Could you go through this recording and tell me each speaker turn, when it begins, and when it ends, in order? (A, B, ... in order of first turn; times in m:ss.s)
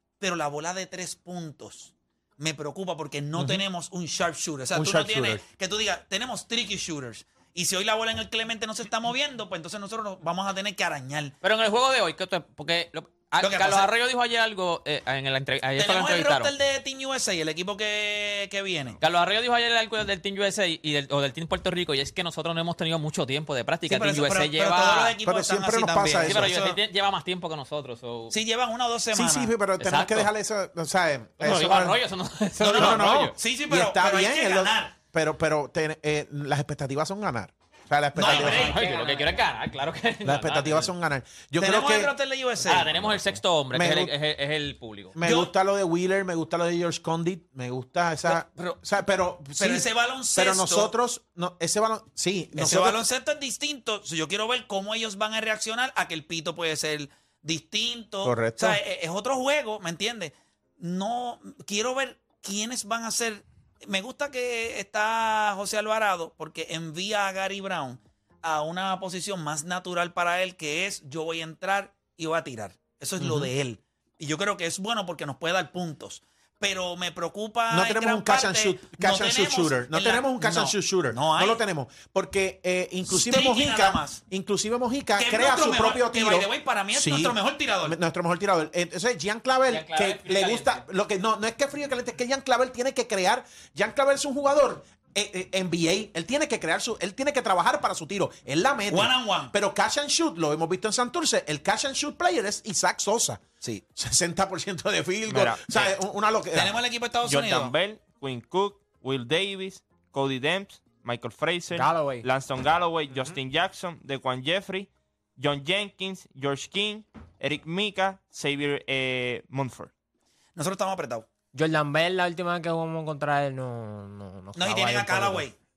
0:00.2-0:11.4 A
0:03.4-0:03.6 B
0:04.7-0:05.4 B
0:11.4-0:16.5 C
0:13.4-0:13.9 A
0:15.8-0:19.0 A
0:19.0-0:25.2 C
0:23.9-0:26.8 A
0:25.2-0:26.8 B
0:26.2-0:28.4 C
0:28.3-0:29.5 A
0:29.1-0:32.0 B
0:29.8-0:30.3 C
0:31.4-0:33.3 C
0:32.6-0:38.8 B
0:32.6-0:35.0 A
0:38.2-0:39.0 A
0:38.2-0:40.9 C
0:38.3-0:39.4 D
0:40.2-0:42.1 B
0:41.6-0:42.9 A
0:42.6-0:45.2 C
0:43.7-0:44.1 B
0:45.1-0:53.0 B
0:45.2-0:45.5 A
0:48.3-0:48.8 A
0:49.6-0:50.9 A
0:52.6-1:21.6 A
0:58.2-0:58.8 B
1:13.2-1:13.5 B
1:17.7-1:43.4 B
1:23.1-1:24.2 A
1:25.2-1:28.0 A
1:29.7-1:30.8 C
1:38.9-1:39.5 A
1:44.0-1:46.8 B
1:45.3-1:45.8 E
1:46.5-1:47.7 A
1:47.2-1:59.9 E
1:51.7-1:52.3 D
2:00.6-2:01.3 A
2:01.5-2:05.5 D
2:04.6-2:05.5 A